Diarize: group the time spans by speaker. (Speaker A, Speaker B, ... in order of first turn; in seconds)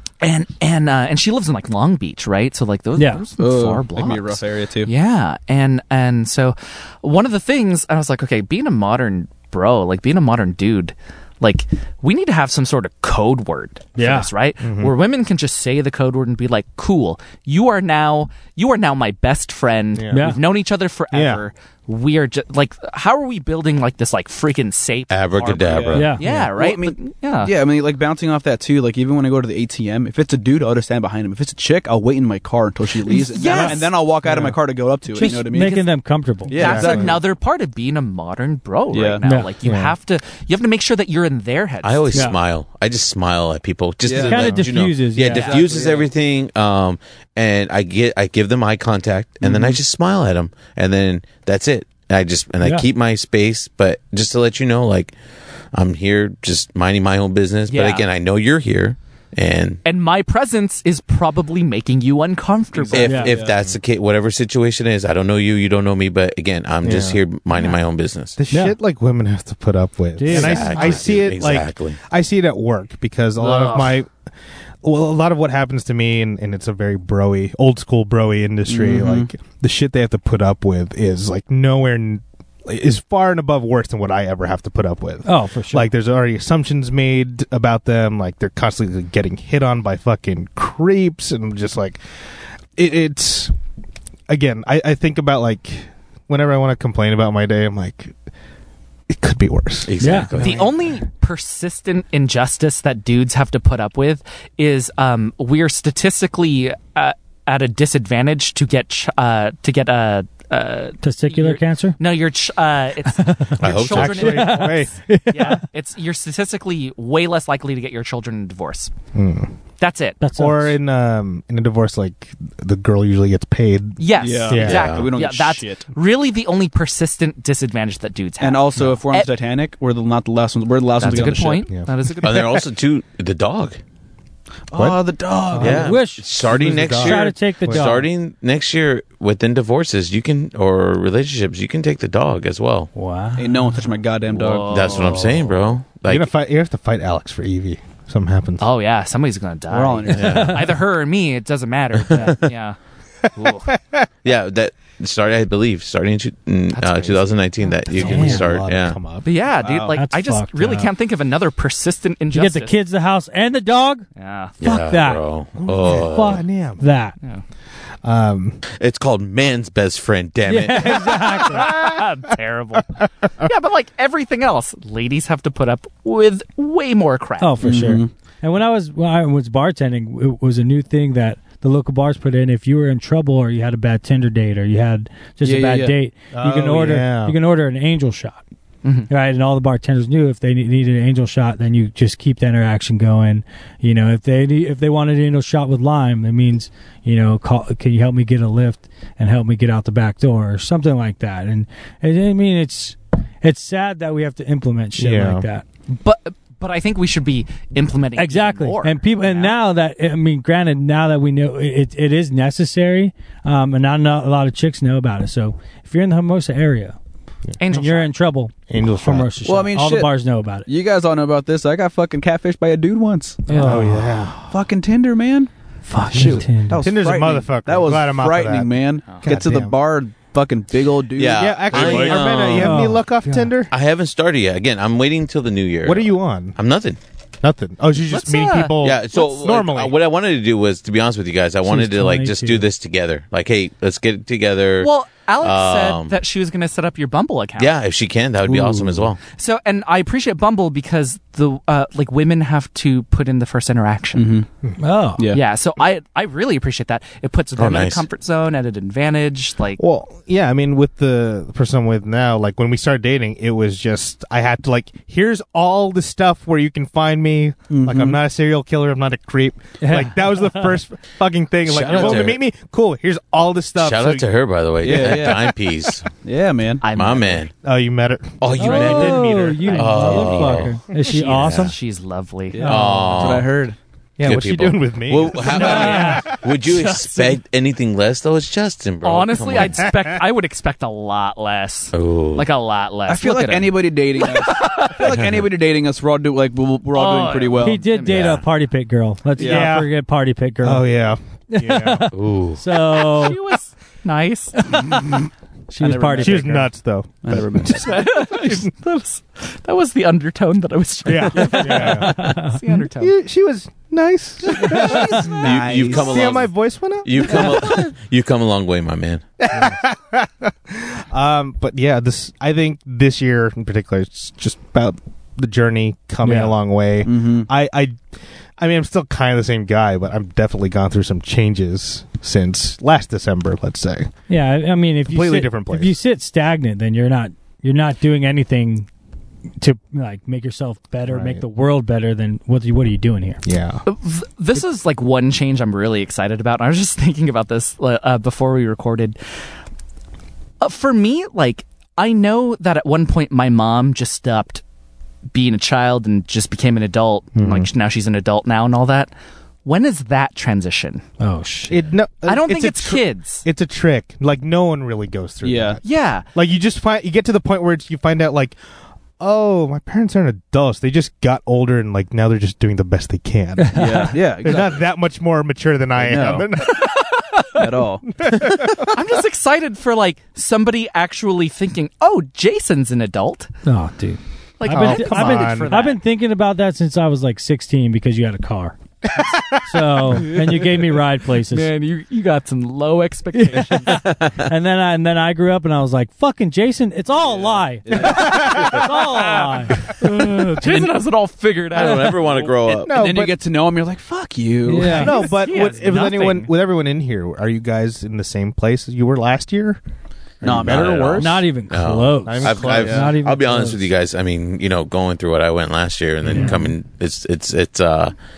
Speaker A: 0.2-27.5, 33.1-33.9, 35.2-35.8, 36.5-42.3, 45.3-45.6, 57.7-58.0, 59.8-63.3, 70.6-71.0, 73.4-73.9, 100.3-118.9, 119.8-120.2, 124.0-129.3, 131.0-132.7, 144.3-145.6, 148.6-152.8, 153.3-153.7, 156.7-157.4, 159.2-162.7, 164.2-164.5, 171.2-177.6, 188.8-189.1, 205.9-209.6, 217.6-218.1, 223.5-223.8, 238.1-238.8, 244.8-247.8, 249.3-254.3, 255.3-259.8, 276.8-277.5, 278.6-279.0, 280.9-282.7, 285.5-287.4, 289.0-295.1, 296.9-298.4, 302.9-304.9, 307.7-313.1, 314.5-315.3, 343.9-349.2, 350.6-354.6, 355.3-359.1, 359.6-361.0, 362.2-363.4, 365.8-366.3, 376.4-377.7, 378.8-383.5, 384.6-386.0, 391.5-394.0, 399.8-402.8, 404.9-406.5
Speaker B: 3.0-3.2, 14.0-14.3, 20.1-20.4, 25.9-26.4, 34.3-34.6, 35.1-36.6, 39.2-39.5, 44.2-45.5, 52.6-52.9, 63.0-63.3, 68.5-68.8, 70.2-70.9, 85.2-85.9, 100.0-100.3, 111.0-112.0, 113.2-113.6, 114.2-115.6, 120.2-120.8, 135.6-136.3, 136.8-138.1, 142.9-143.8, 150.1-150.8, 158.0-158.4, 159.9-160.9, 162.3-164.1, 164.6-165.2, 165.8-167.2, 170.5-171.7, 177.4-188.4, 189.1-205.6, 208.2-217.0, 217.6-220.7, 223.5-224.3, 225.9-226.9, 232.5-233.5, 241.6-242.7, 248.5-249.0, 254.8-255.2, 269.8-270.8, 278.6-281.8, 282.6-283.4, 285.5-286.2, 297.6-300.9, 301.5-303.4, 304.7-305.1, 305.7-306.7, 311.4-312.6, 326.2-326.6, 334.3-338.9, 339.6-343.4, 361.2-361.9, 373.6-374.1, 383.6-388.8, 389.6-391.7, 393.3-400.9, 404.7-405.1, 411.2-413.8, 416.3-416.6
Speaker C: 3.4-4.9, 25.6-35.8, 36.5-37.2, 38.9-39.2, 44.0-44.6, 45.3-46.1, 49.4-49.8, 62.8-63.6, 78.7-79.3, 124.2-125.8, 128.4-131.7, 134.7-135.9, 143.4-145.0, 149.7-150.5, 159.6-160.0, 177.6-178.1, 185.4-185.9, 219.4-220.2, 220.7-223.7, 224.5-232.3, 254.2-254.5, 267.7-268.2, 274.8-275.5, 276.2-276.9, 282.5-283.8, 293.1-297.9, 299.4-299.7, 305.8-306.6, 307.2-308.0, 314.6-316.3, 327.0-327.5, 365.4-365.8, 373.7-374.8, 376.0-376.5, 377.6-378.1, 397.3-398.8, 402.9-405.1, 410.4-411.4, 412.8-413.1
Speaker D: 14.6-14.9, 20.0-20.3, 21.1-21.4, 36.5-37.2, 39.6-40.0, 66.8-67.2, 68.4-74.1, 74.8-92.0, 92.8-93.5, 94.3-98.2, 99.1-100.7, 113.7-115.0, 119.1-119.5, 120.4-124.8, 134.7-135.0, 135.6-137.9, 146.1-148.7, 153.4-154.1, 157.9-159.3, 165.6-166.8, 168.0-168.6, 171.5-172.1, 173.0-173.5, 186.3-187.4, 205.0-205.4, 218.7-219.3, 223.6-224.4, 226.1-229.7, 231.3-233.7, 235.8-236.6, 237.4-239.9, 259.8-274.3, 277.6-280.6, 284.2-286.4, 289.6-290.2, 299.4-299.9, 300.6-302.1, 306.2-308.7, 311.1-312.2, 312.9-317.9, 319.4-328.0, 328.6-334.1, 335.1-336.0, 341.1-341.4, 343.4-343.9, 357.4-357.7, 361.7-365.8, 366.3-368.6, 369.2-376.9, 378.1-379.0, 384.7-385.8, 389.1-390.2, 397.9-398.9, 402.8-403.4, 404.9-409.8, 410.4-411.1, 412.3-413.1, 416.3-416.6
Speaker E: 25.1-26.1, 41.8-55.1, 55.7-59.8, 62.9-68.4, 70.3-72.0, 99.9-100.7, 113.6-114.4, 124.6-125.1, 132.2-133.8, 135.6-142.9, 144.7-146.3, 150.1-150.6, 152.0-152.4, 154.2-159.0, 164.6-166.4, 168.8-171.1, 231.2-232.8, 233.7-237.0, 238.8-244.9, 245.4-246.2, 247.6-249.2, 257.6-258.0, 271.6-272.4, 273.8-276.1, 276.9-277.5, 278.4-281.7, 282.6-283.5, 284.2-289.9, 291.9-292.5, 298.1-298.4, 302.1-302.6, 315.3-316.5, 317.0-319.2, 393.9-394.5, 401.7-402.9, 410.4-418.1